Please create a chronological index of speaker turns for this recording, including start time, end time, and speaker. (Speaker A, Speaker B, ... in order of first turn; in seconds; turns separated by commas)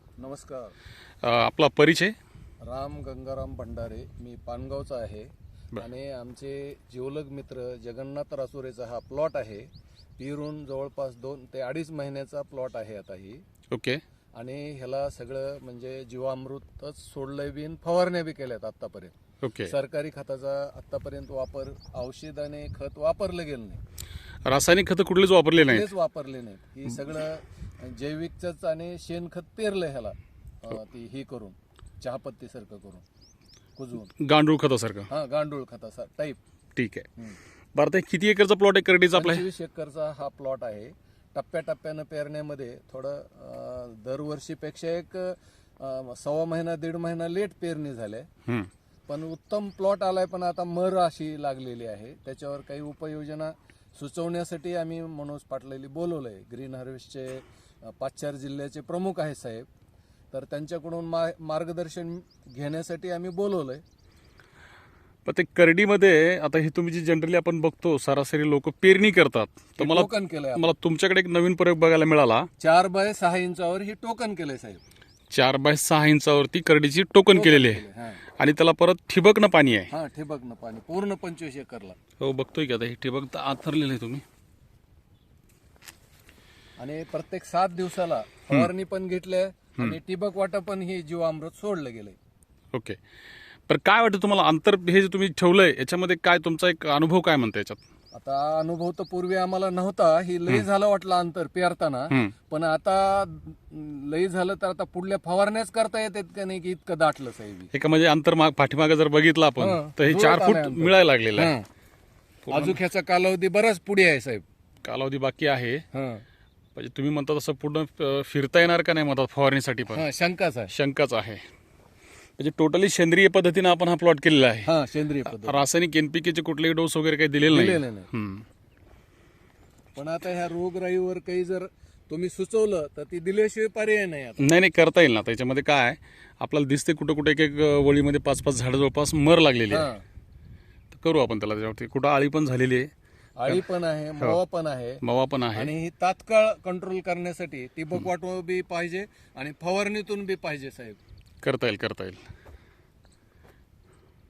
Speaker A: 0.2-0.7, Speaker B: 1.2-2.1, Speaker A: 2.6-13.4, Speaker B: 13.7-14.0, Speaker A: 14.3-19.1, Speaker B: 19.4-19.7, Speaker A: 19.6-23.8, Speaker B: 24.4-25.9, Speaker A: 25.6-33.0, Speaker A: 33.8-34.1, Speaker B: 34.2-35.1, Speaker A: 35.1-36.4, Speaker B: 36.8-37.1, Speaker B: 37.8-39.4, Speaker A: 39.1-48.3, Speaker A: 49.1-59.7, Speaker A: 60.3-63.8, Speaker B: 65.3-72.5, Speaker A: 69.8-70.7, Speaker A: 72.6-74.8, Speaker B: 75.3-77.8, Speaker A: 77.3-78.2, Speaker B: 78.4-79.9, Speaker A: 79.9-82.0, Speaker B: 82.2-84.2, Speaker A: 86.8-92.2, Speaker B: 92.7-93.0, Speaker B: 93.7-97.8, Speaker A: 98.2-107.7, Speaker B: 107.7-111.5, Speaker A: 109.6-111.7, Speaker B: 112.5-112.8, Speaker A: 112.5-114.4, Speaker B: 114.8-115.8, Speaker A: 115.9-116.2, Speaker B: 116.8-120.0, Speaker A: 119.9-120.7, Speaker B: 120.7-121.4, Speaker B: 122.4-124.7, Speaker A: 124.7-125.7, Speaker B: 125.3-128.4, Speaker A: 127.5-128.1, Speaker A: 129.9-134.5, Speaker B: 134.4-139.9, Speaker A: 139.7-140.0, Speaker B: 140.9-142.9, Speaker A: 143.4-145.0, Speaker B: 145.0-145.7, Speaker A: 145.5-151.0, Speaker B: 151.4-152.2